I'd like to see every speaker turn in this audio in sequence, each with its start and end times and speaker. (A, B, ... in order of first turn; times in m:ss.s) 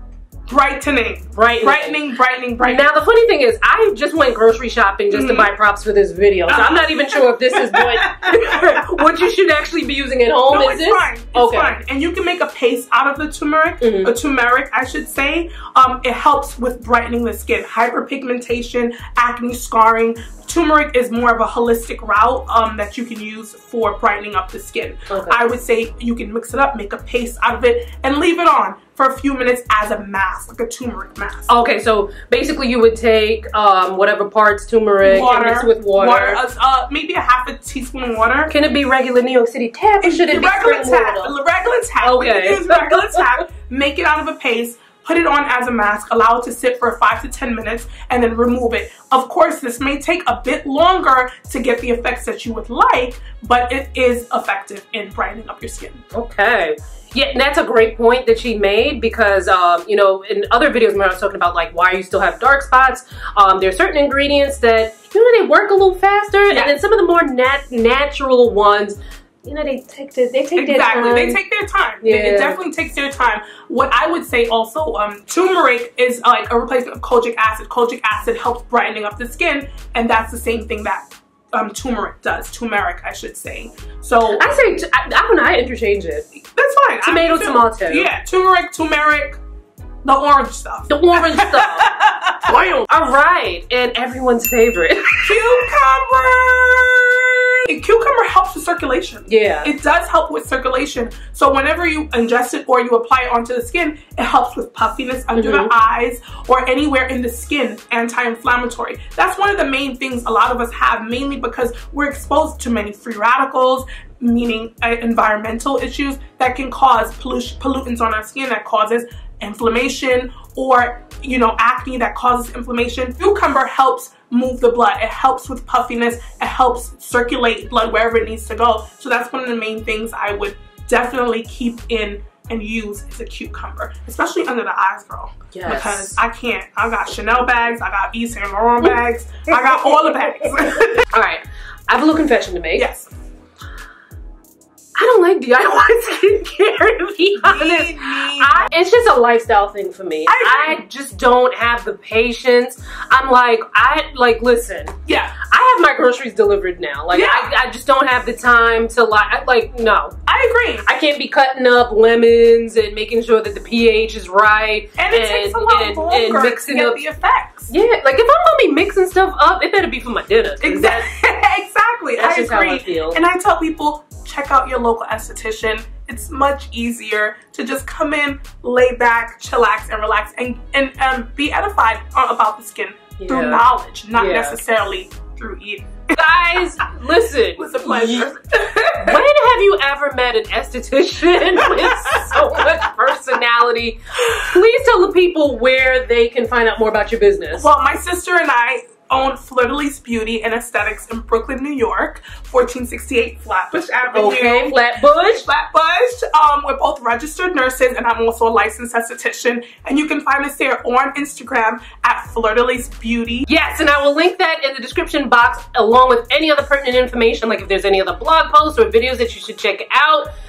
0:00.5-0:02.9 A
0:01.3-0:02.0 B
0:02.6-0:11.8 B
0:05.1-0:05.5 A
0:06.5-0:09.1 A
0:10.5-0:31.5 A
0:13.8-0:14.1 B
0:25.1-0:25.4 B
0:31.5-0:36.4 B
0:35.0-0:38.5 A
0:38.5-0:41.3 B
0:40.0-0:56.0 A
0:42.0-0:43.4 B
0:56.1-1:11.4 B
1:06.5-1:06.8 A
1:10.5-1:24.5 A
1:12.0-1:12.6 B
1:24.3-1:26.2 B
1:26.4-1:29.4 A
1:27.0-1:28.1 B
1:30.0-1:32.5 A
1:30.9-1:31.9 B
1:32.4-1:35.5 B
1:35.2-2:21.0 A
1:39.3-1:39.7 B
1:45.3-1:45.7 B
2:15.5-2:16.2 B
2:19.5-2:22.9 B
2:22.7-2:23.1 A
2:25.0-2:40.2 B
2:27.4-2:28.7 A
2:30.2-2:30.8 A
2:35.0-2:35.4 A
2:37.1-2:37.5 A
2:40.2-2:40.9 A
2:40.8-2:47.0 B
2:45.0-2:47.7 A
2:47.7-2:51.1 B
2:50.6-3:06.2 A
2:52.2-2:53.2 B
3:03.2-3:04.6 B
3:06.1-3:08.4 B
3:07.6-3:09.2 A
3:08.9-3:17.7 B
3:11.5-3:12.6 A
3:17.6-3:33.5 A
3:24.1-3:25.5 B
3:33.5-3:40.3 B